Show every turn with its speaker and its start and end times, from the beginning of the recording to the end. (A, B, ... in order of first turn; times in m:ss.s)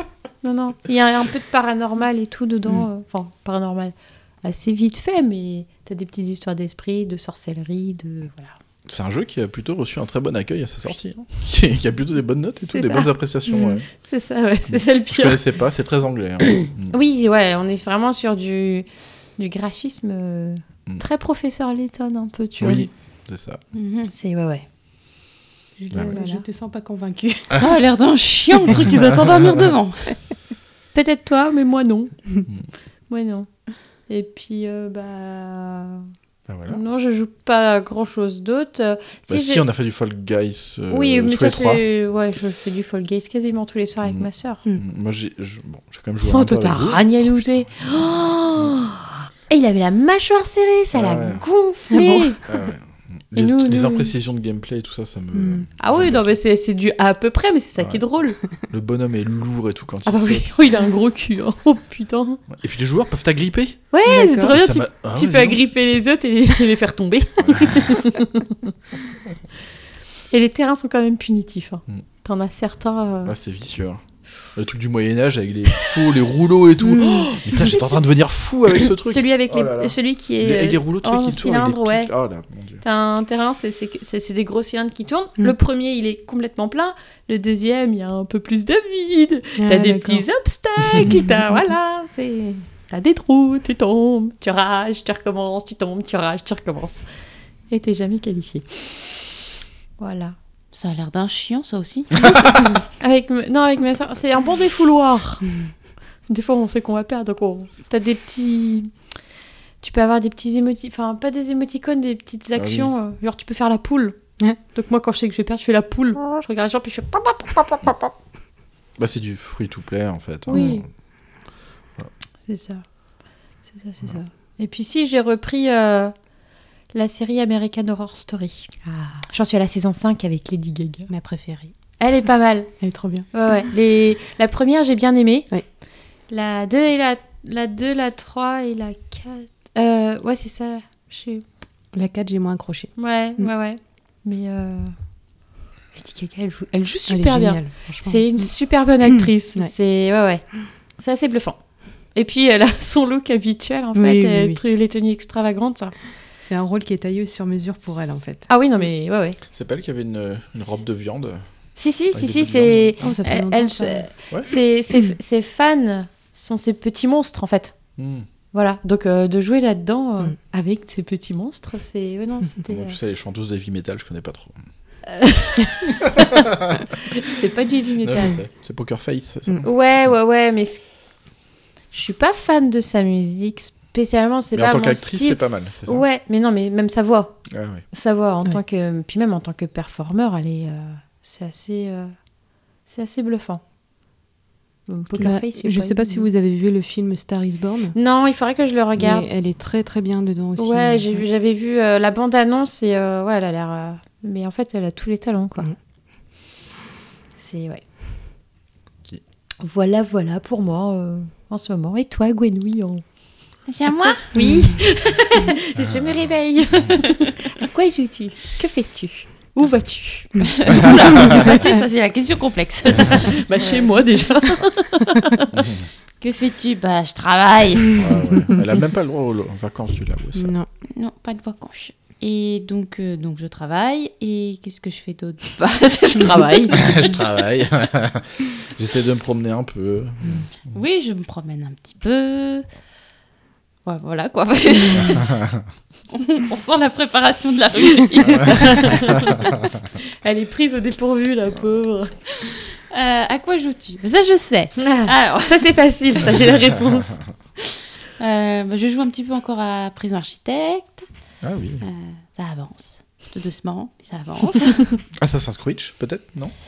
0:00.4-0:08.5 A
0:08.9-0:13.9 B
0:12.6-0:15.4 A
0:14.7-0:17.0 B
0:16.9-0:22.9 A
0:22.6-0:23.6 B
0:23.7-0:24.1 C
0:24.1-0:24.6 A
0:25.8-0:27.6 D
0:25.9-0:26.2 B
0:26.1-0:26.4 A
0:27.5-0:30.1 C
0:28.7-0:29.6 B
0:30.9-0:32.4 A
0:33.1-0:33.5 A
0:34.1-0:36.1 A
0:36.5-0:36.8 B
0:36.7-0:39.7 A
0:39.3-0:41.8 B
0:40.9-0:44.6 A
0:44.0-0:47.7 B
0:46.3-0:52.4 A
0:50.9-0:51.4 B
0:51.9-0:52.4 D
0:52.5-0:56.4 B
0:53.4-0:54.1 A
0:55.3-0:55.7 D
0:55.8-0:58.4 A
0:57.8-0:58.0 B
0:58.7-1:00.5 B
1:00.1-1:02.4 A
1:02.5-1:03.8 B
1:03.9-1:08.7 A
1:04.1-1:04.6 D
1:04.5-1:05.6 B
1:07.4-1:08.0 B
1:10.3-1:13.3 A
1:13.2-1:14.0 B
1:14.6-1:22.8 B
1:17.0-1:17.3 D
1:17.6-1:18.0 A
1:19.0-1:22.1 A
1:22.8-1:37.0 A
1:29.6-1:30.3 D
1:37.7-1:38.9 A
1:40.0-1:40.4 A
1:40.7-1:42.3 C
1:43.0-1:45.5 A
1:46.3-1:48.9 A
1:49.8-1:54.2 A
1:52.6-1:52.9 B
1:54.7-1:58.1 A
1:59.0-2:00.8 B
2:00.5-2:00.8 A
2:02.4-2:02.8 A
2:03.7-2:06.1 A
2:06.9-2:11.1 A
2:11.1-2:11.7 D
2:12.0-2:12.7 A
2:12.8-2:13.3 D
2:13.3-2:15.6 A
2:16.3-2:21.4 A
2:21.9-2:23.5 D
2:23.0-2:24.9 A
2:25.9-2:30.4 A
2:27.1-2:28.5 D
2:29.1-2:29.7 D
2:31.0-2:31.6 A
2:32.1-2:35.9 A
2:33.9-2:34.6 D
2:36.4-2:38.5 D
2:38.5-2:39.4 A
2:39.5-2:41.4 B
2:41.8-2:47.7 A
2:42.1-2:42.9 B
2:43.0-2:44.1 D
2:44.3-2:44.6 B
2:48.0-2:48.3 B
2:48.5-2:53.0 A
2:52.7-2:54.6 B
2:55.1-2:56.3 A
2:56.1-2:56.8 B
2:57.1-2:58.4 A
2:58.0-2:59.7 B
2:59.6-3:00.8 A
3:01.9-3:07.4 A
3:04.5-3:06.0 B
3:07.5-3:07.8 B
3:07.9-3:12.1 A
3:12.9-3:13.6 A
3:14.9-3:16.3 A
3:15.1-3:15.4 B
3:15.2-3:18.0 D
3:17.9-3:19.3 A
3:19.0-3:21.3 D
3:20.6-3:25.7 A
3:27.4-3:27.8 A
3:29.6-3:33.0 A
3:33.7-3:34.7 C
3:34.0-3:40.3 A
3:35.8-3:36.1 B
3:40.4-3:43.9 C
3:43.0-3:45.4 A
3:45.6-3:45.8 B
3:46.2-3:48.0 C
3:48.0-3:50.5 B
3:50.4-3:50.7 D
3:50.9-3:56.8 C
3:56.1-3:56.8 A
3:56.7-4:00.5 B
4:00.7-4:02.6 C
4:03.8-4:05.3 C
4:06.1-4:09.0 C
4:07.9-4:09.5 A
4:10.2-4:12.2 A
4:12.5-4:15.6 C
4:14.8-4:17.2 A
4:18.2-4:21.0 C
4:21.4-4:21.8 B
4:21.8-4:24.9 C
4:25.2-4:26.5 B